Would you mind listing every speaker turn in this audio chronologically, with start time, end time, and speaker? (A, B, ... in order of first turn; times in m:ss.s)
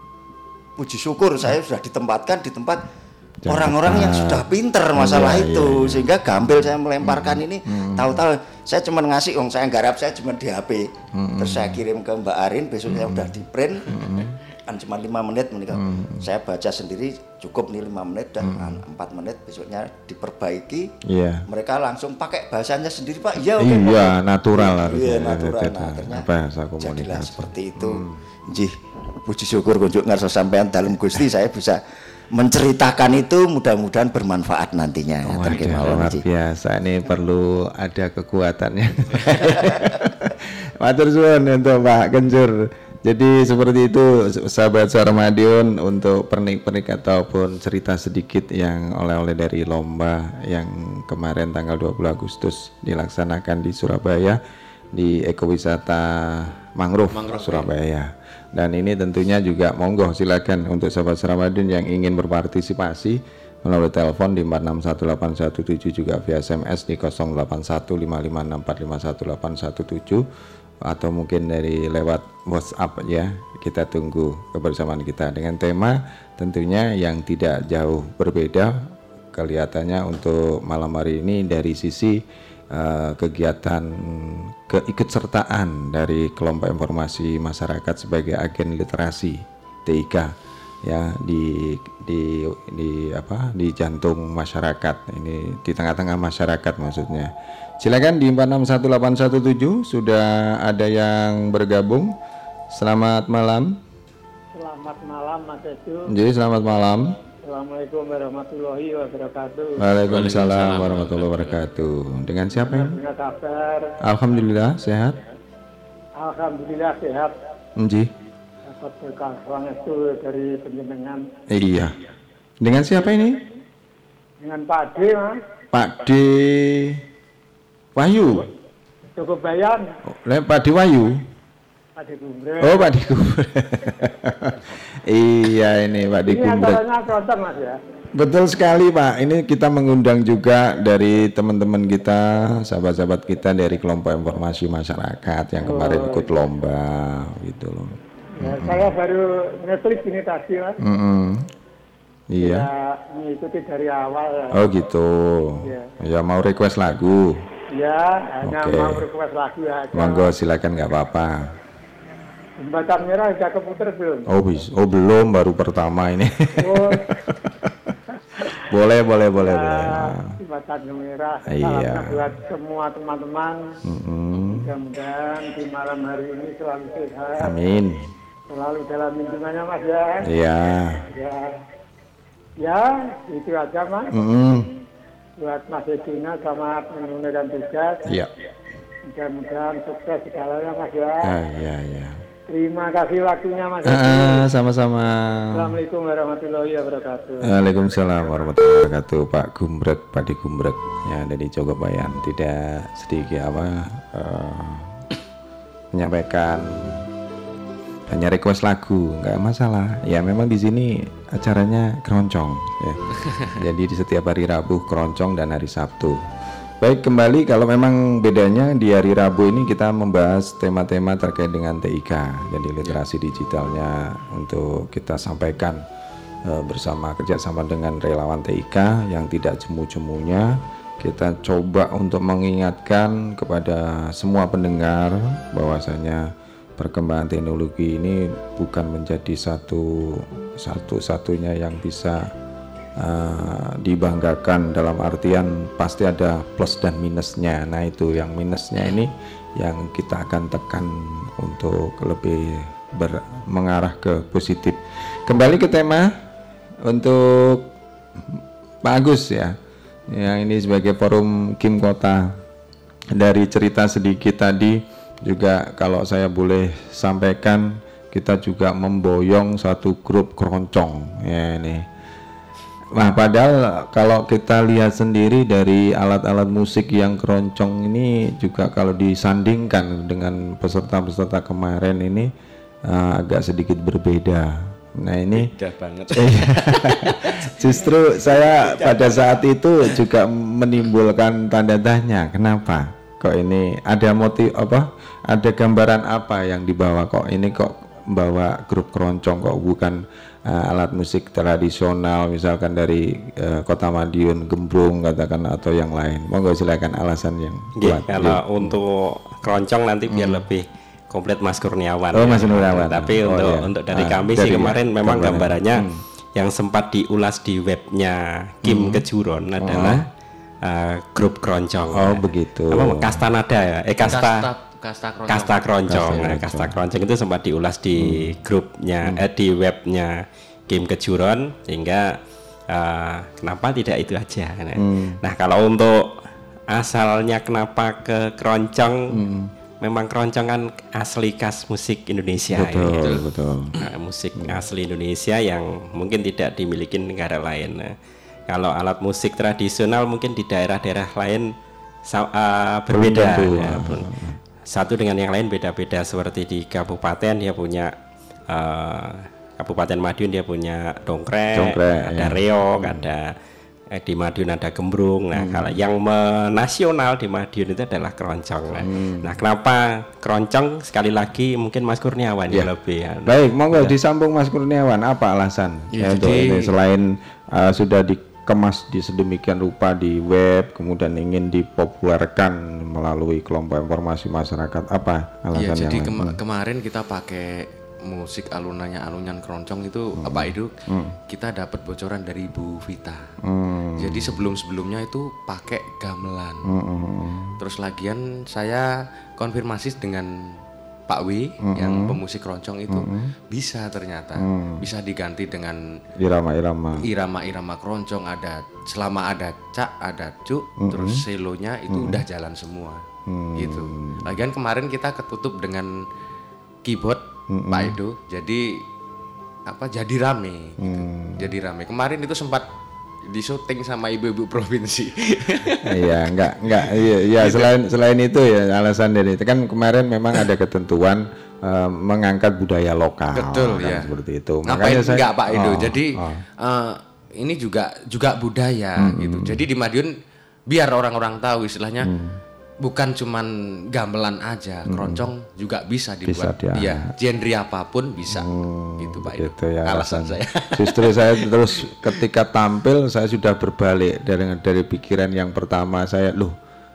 0:00.8-0:02.8 A
0:03.4-0:06.1 B
0:03.5-0:14.0 A
0:07.0-0:08.2 B
0:11.1-0:11.8 B
0:12.9-0:14.4 B
0:14.6-0:20.9 A
0:15.7-0:16.3 B
0:18.4-0:18.8 B
0:21.0-0:21.5 B
0:21.5-0:31.8 A
0:23.6-0:28.2 B
0:32.3-0:36.2 A
0:35.2-0:54.4 B
0:54.9-1:10.2 B
0:57.1-0:57.7 C
1:10.8-1:30.3 B
1:30.8-1:42.1 B
1:42.7-1:43.8 B
1:44.5-1:46.1 D
1:46.1-1:47.1 B
1:47.4-1:49.8 D
1:49.8-1:53.0 B
1:50.0-1:51.6 C
1:52.5-1:53.9 D
1:54.0-1:55.2 B
1:56.2-1:57.3 D
1:57.8-1:58.1 B
1:58.7-2:01.2 D
2:01.5-2:02.0 B
2:02.6-2:03.4 B
2:04.4-2:05.3 D
2:05.7-2:07.0 B
2:08.0-2:08.5 B
2:09.2-2:09.8 D
2:10.1-2:11.2 B
2:12.0-2:13.0 D
2:12.6-2:16.8 B
2:16.3-2:17.8 D
2:18.1-2:28.9 B
2:25.6-2:26.3 D
2:28.4-2:30.8 D
2:30.8-2:31.5 B
2:32.3-2:32.7 B
2:32.4-2:34.7 D
2:34.5-2:37.4 B
2:35.6-2:35.9 D
2:37.8-2:40.3 D
2:38.4-2:39.0 B
2:39.9-2:41.5 B
2:42.6-2:44.3 D
2:44.3-2:47.9 B
2:46.6-2:47.0 D
2:48.5-2:50.4 B
2:49.3-2:53.6 D
2:51.5-2:52.3 B
2:53.8-2:54.7 B
2:54.4-2:57.5 D
2:57.4-2:58.1 B
2:58.5-3:00.3 D
3:00.2-3:01.0 B
3:01.0-3:01.5 D
3:02.6-3:04.1 D
3:04.1-3:04.7 B
3:05.4-3:08.1 D
3:09.1-3:11.3 D
3:11.2-3:12.2 B
3:12.5-3:14.5 D
3:13.8-3:15.8 B
3:15.5-3:17.5 D
3:17.4-3:24.9 B
3:25.9-3:27.0 B
3:28.1-3:36.2 B
3:36.8-3:45.8 B
3:46.4-4:02.3 B
4:03.0-4:16.1 B
4:16.8-4:17.7 B
4:18.2-4:19.6 B
4:20.1-4:22.4 B
4:23.1-4:31.8 B
4:32.9-4:42.3 B
4:42.8-4:45.5 B
4:45.3-4:49.9 C
4:46.1-5:08.8 B
5:07.8-5:20.0 E
5:10.1-5:10.5 B
5:12.1-5:16.0 B
5:18.6-5:19.0 B
5:19.6-5:20.1 B
5:20.6-5:24.4 E
5:21.9-5:23.2 B
5:24.0-5:26.4 C
5:25.3-5:32.2 E
5:25.8-5:26.8 B
5:28.0-5:28.4 B
5:32.7-5:36.1 E
5:34.8-5:35.2 B
5:36.7-5:39.1 E
5:39.1-5:39.5 B
5:39.8-5:43.0 E
5:42.5-5:43.8 B
5:43.0-5:43.3 C
5:43.8-5:47.9 E
5:44.4-5:44.6 B
5:48.5-5:51.5 E
5:52.1-5:54.1 E
5:52.9-5:54.4 B
5:54.7-5:57.9 E
5:58.5-6:03.3 E
6:01.5-6:03.1 B
6:04.0-6:13.9 E
6:05.3-6:05.8 B
6:08.7-6:08.9 C
6:08.8-6:09.4 B
6:13.2-6:26.4 B
6:15.9-6:16.7 C
6:25.5-6:30.7 C
6:30.2-6:31.2 B
6:31.3-6:33.2 C
6:33.4-6:34.4 B
6:34.0-6:36.7 C
6:36.6-6:37.6 B
6:37.6-6:40.3 C
6:41.1-6:45.8 C
6:41.6-6:42.2 B
6:42.9-6:43.3 B
6:44.4-6:44.8 B
6:46.2-6:47.0 B
6:47.0-6:53.0 C
6:50.8-6:51.2 B
6:51.9-6:52.2 B
6:53.3-6:54.4 B
6:53.6-6:55.9 C
6:56.8-6:58.8 C
6:57.5-6:58.0 B
6:59.7-7:02.6 C
7:00.8-7:01.5 B
7:03.3-7:06.0 C
7:05.8-7:16.4 B
7:07.4-7:07.7 C
7:13.3-7:14.1 C
7:14.6-7:20.1 C
7:19.0-7:19.6 B
7:20.7-7:22.1 C
7:22.0-7:22.4 B
7:22.8-7:32.1 C
7:24.9-7:25.2 B
7:26.2-7:27.1 B
7:28.3-7:36.5 B